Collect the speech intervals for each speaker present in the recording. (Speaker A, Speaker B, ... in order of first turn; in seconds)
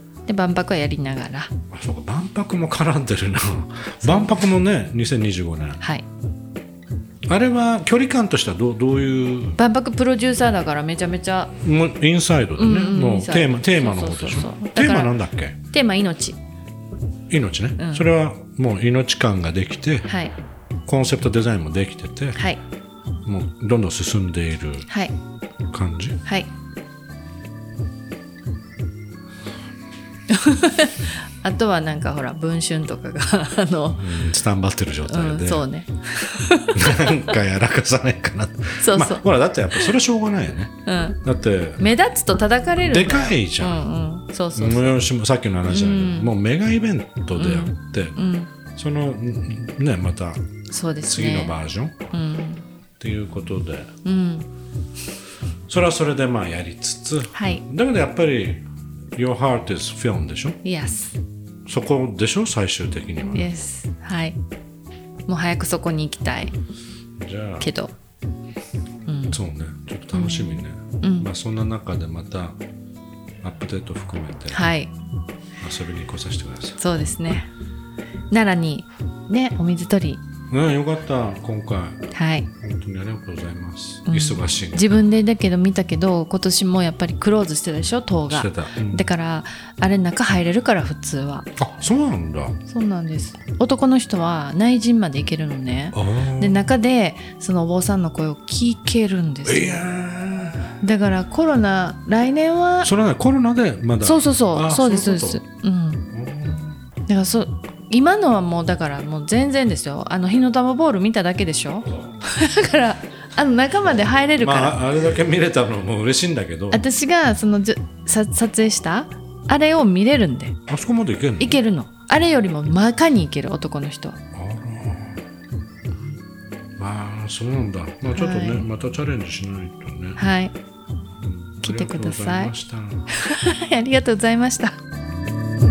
Speaker A: 0.2-1.5, 4.0-4.4, 5.8-6.0, 9.6-11.6, 12.6-16.4, 17.8-18.1, 20.1-20.4, 24.9-25.1, 26.2-26.5, 30.3-34.2, 35.1-37.4, 38.8-40.0, 40.9-41.2, 41.8-45.0, 45.7-46.3, 47.4-48.5, 50.7-51.6, 52.1-52.6, 54.0-54.5, 57.3-57.6, 60.6-61.2, 63.3-64.4, 65.3-66.6, 67.6-67.9, 69.1-69.4, 70.1-71.3, 74.5-74.9, 76.8-77.5, 78.3-80.2, 82.1-82.5, 84.1-91.5, 92.7-99.9, 100.7-102.9, 104.0-106.1, 107.1-114.8, 116.7-120.6, 121.4-124.2, 128.1-128.7, 130.2-130.5, 131.6-132.5, 133.1-134.8
Speaker B: 1.7-5.8, 7.3-9.6, 11.6-15.6, 17.3-20.1, 20.9-22.4, 23.3-24.9, 25.7-26.2, 34.0-35.6, 36.7-41.9, 42.9-43.8, 44.6-48.2, 48.8-50.5, 51.0-52.0, 53.0-53.9, 55.7-60.6, 61.7-63.6, 67.2-67.7, 69.3-72.6, 73.4-74.7, 75.6-76.8, 80.5-82.0, 82.6-85.0, 88.3-89.0, 91.6-92.6, 95.9-96.7, 99.5-100.7, 102.8-105.4, 106.1-106.8, 114.0-116.9, 120.7-121.6, 124.3-125.2, 126.8-130.2, 131.2-133.1